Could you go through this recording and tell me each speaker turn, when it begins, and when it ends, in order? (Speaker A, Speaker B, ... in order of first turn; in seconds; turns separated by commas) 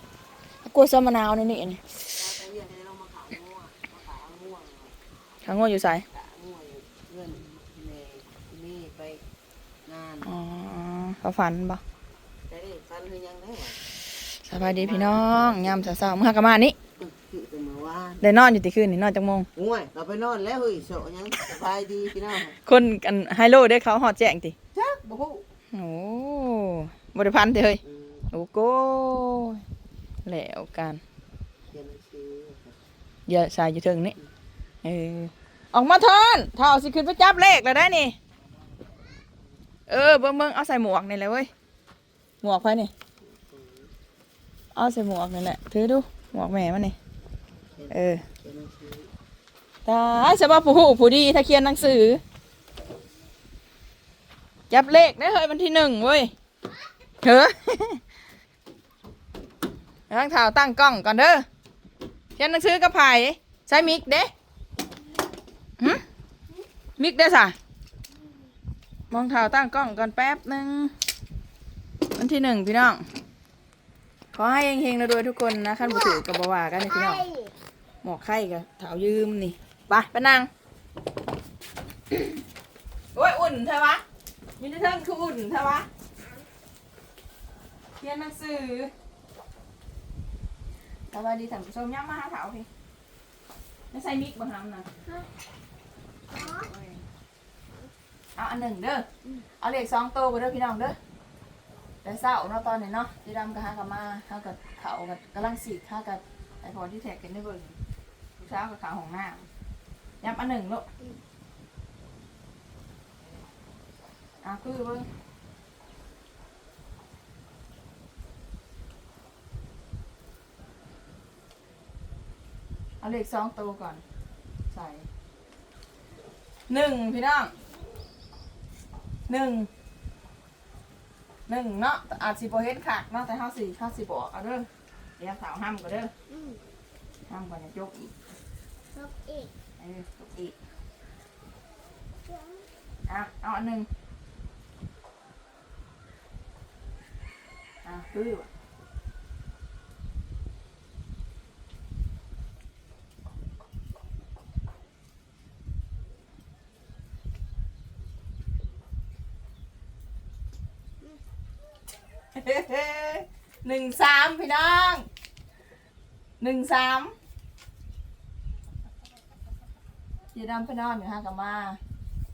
Speaker A: 0.6-1.8, Speaker B: 2.1-5.0, Speaker A: 5.4-6.0, Speaker B: 6.1-9.2, Speaker B: 9.8-10.3, Speaker A: 10.2-11.8, Speaker B: 12.5-13.8, Speaker A: 14.4-16.8, Speaker B: 14.5-15.9, Speaker B: 17.0-18.2, Speaker A: 18.2-19.5, Speaker B: 19.6-22.6, Speaker A: 22.5-24.6, Speaker B: 24.7-25.4, Speaker A: 25.7-27.8, Speaker B: 27.8-28.3, Speaker A: 28.3-29.6, Speaker A: 30.2-31.0, Speaker B: 31.7-32.8, Speaker A: 33.3-34.2, Speaker A: 34.8-38.1, Speaker A: 39.9-41.5, Speaker A: 42.4-42.9, Speaker B: 43.2-43.9, Speaker A: 44.7-47.0, Speaker B: 47.8-49.1, Speaker A: 47.9-48.2, Speaker A: 49.9-52.2, Speaker A: 54.7-56.3, Speaker A: 57.2-58.0, Speaker A: 60.1-61.4, Speaker A: 62.4-64.3, Speaker A: 65.8-66.0, Speaker A: 67.0-67.5, Speaker A: 69.1-70.9, Speaker A: 72.2-73.0, Speaker A: 74.3-77.3, Speaker C: 76.9-77.5, Speaker A: 78.0-80.5, Speaker A: 82.1-82.4, Speaker A: 83.1-84.0, Speaker A: 84.6-85.9, Speaker A: 88.0-88.9, Speaker A: 91.1-92.7, Speaker A: 93.9-94.9, Speaker A: 96.3-97.0, Speaker C: 96.3-96.7, Speaker A: 98.3-99.1, Speaker A: 99.6-101.0, Speaker A: 102.0-107.8, Speaker A: 108.4-109.5, Speaker A: 110.2-110.9, Speaker A: 114.4-115.1, Speaker A: 123.0-124.0, Speaker A: 124.7-125.1, Speaker A: 126.7-127.5, Speaker A: 129.3-129.7, Speaker A: 131.5-136.1, Speaker C: 136.3-136.6, Speaker A: 137.3-138.1, Speaker C: 138.9-139.5, Speaker A: 139.8-140.6, Speaker C: 142.3-142.7, Speaker A: 143.1-143.9, Speaker A: 147.8-148.5, Speaker A: 162.3-165.1, Speaker A: 166.4-167.1, Speaker A: 170.3-171.8